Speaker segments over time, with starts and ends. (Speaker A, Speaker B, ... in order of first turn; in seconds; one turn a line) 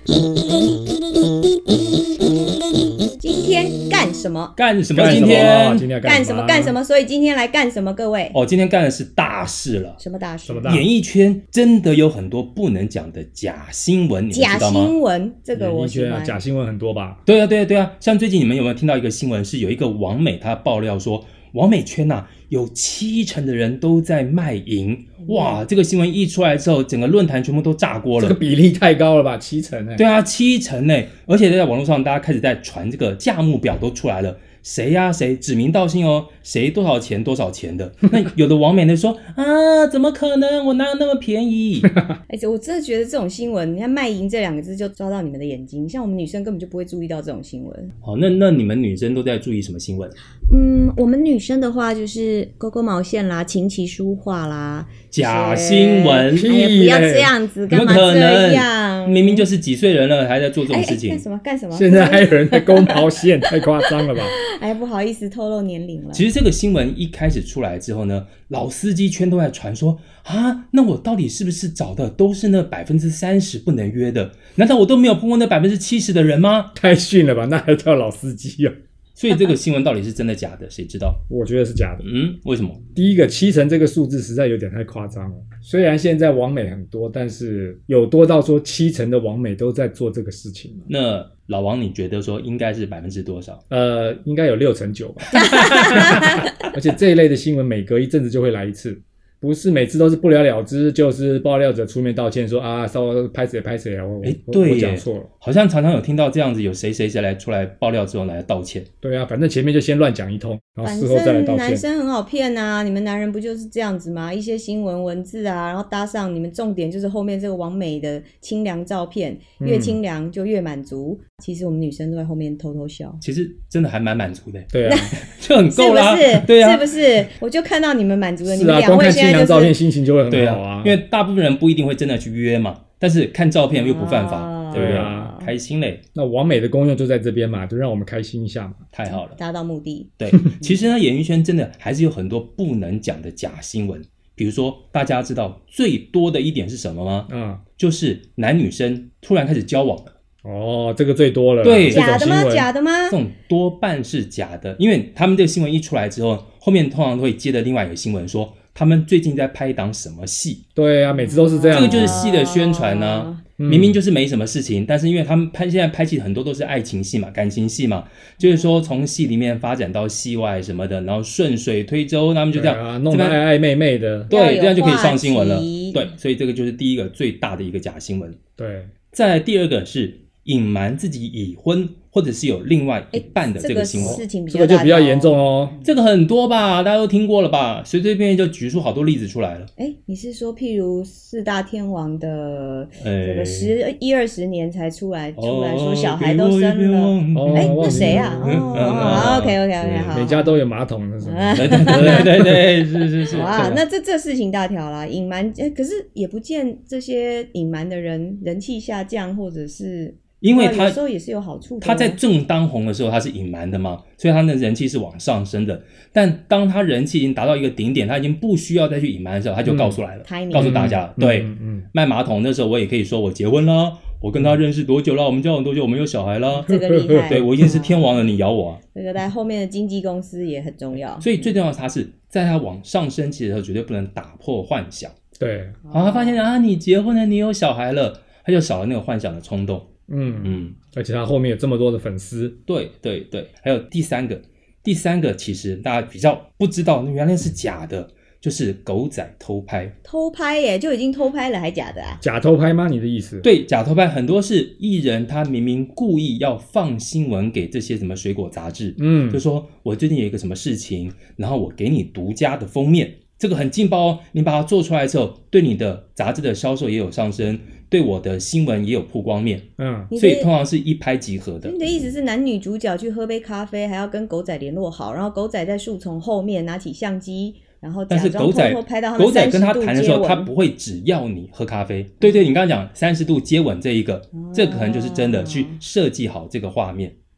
Speaker A: 3.2-4.5
Speaker B: 4.6-5.8
Speaker C: 4.9-6.8
Speaker A: 6.0-8.4
Speaker B: 8.3-10.0
Speaker A: 10.0-10.8
Speaker C: 10.5-10.9
Speaker B: 10.7-14.9
Speaker A: 14.3-16.4
Speaker C: 15.5-17.2
Speaker B: 17.2-28.4
Speaker A: 25.3-25.5
Speaker C: 28.2-30.0
Speaker B: 30.0-41.9
Speaker A: 42.3-47.9
Speaker B: 48.0-50.1
Speaker A: 50.5-59.5
Speaker B: 55.1-56.5
Speaker C: 56.3-57.3
Speaker B: 57.7-61.2
Speaker A: 60.7-66.3
Speaker C: 61.7-64.4
Speaker B: 66.1-76.7
Speaker C: 76.7-78.7
Speaker B: 79.2-81.2
Speaker C: 81.3-82.1
Speaker B: 82.0-82.8
Speaker C: 82.9-90.9
Speaker B: 90.9-93.6
Speaker C: 93.7-105.3
Speaker A: 95.3-96.5
Speaker B: 95.4-95.9
Speaker B: 104.2-108.9
Speaker C: 109.0-111.8
Speaker A: 110.8-123.2
Speaker C: 119.6-120.0
Speaker B: 123.2-127.0
Speaker C: 124.7-125.1
Speaker A: 124.8-125.2
Speaker A: 125.7-129.8
Speaker C: 128.4-131.0
Speaker B: 130.3-136.0
Speaker A: 133.7-135.5
Speaker C: 134.7-135.4
Speaker C: 136.2-138.8
Speaker B: 138.9-139.4
Speaker A: 139.1-140.8
Speaker B: 140.2-150.1
Speaker C: 147.3-147.6
Speaker C: 150.4-152.7
Speaker B: 151.6-152.1
Speaker A: 151.9-153.2
Speaker B: 153.1-160.6
Speaker C: 160.8-162.2
Speaker A: 161.1-163.4
Speaker B: 161.7-173.4
Speaker C: 163.6-164.0
Speaker C: 172.5-174.3
Speaker A: 174.3-176.1
Speaker B: 174.3-178.4
Speaker C: 178.6-178.9
Speaker B: 179.1-184.2
Speaker A: 183.1-185.9
Speaker C: 183.9-185.8
Speaker B: 185.8-189.7
Speaker A: 189.8-200.6
Speaker B: 193.0-193.8
Speaker B: 195.4-200.3
Speaker C: 197.3-199.3
Speaker C: 200.1-202.7
Speaker A: 201.2-202.3
Speaker B: 201.6-203.8
Speaker A: 203.3-212.2
Speaker B: 210.4-211.0
Speaker B: 211.8-228.8
Speaker C: 219.7-220.0
Speaker A: 220.2-220.8
Speaker C: 220.6-221.9
Speaker A: 226.6-228.2
Speaker C: 226.7-227.5
Speaker A: 228.9-231.5
Speaker B: 231.2-235.2
Speaker C: 235.4-235.8
Speaker A: 235.8-236.4
Speaker B: 235.9-239.9
Speaker C: 240.1-242.6
Speaker B: 240.4-240.8
Speaker B: 242.7-249.9
Speaker A: 250.1-252.2
Speaker C: 252.2-253.4
Speaker B: 253.4-271.8
Speaker C: 259.0-259.4
Speaker C: 269.8-270.1
Speaker A: 270.1-270.5
Speaker A: 271.6-280.5
Speaker B: 278.1-287.2
Speaker A: 284.4-285.8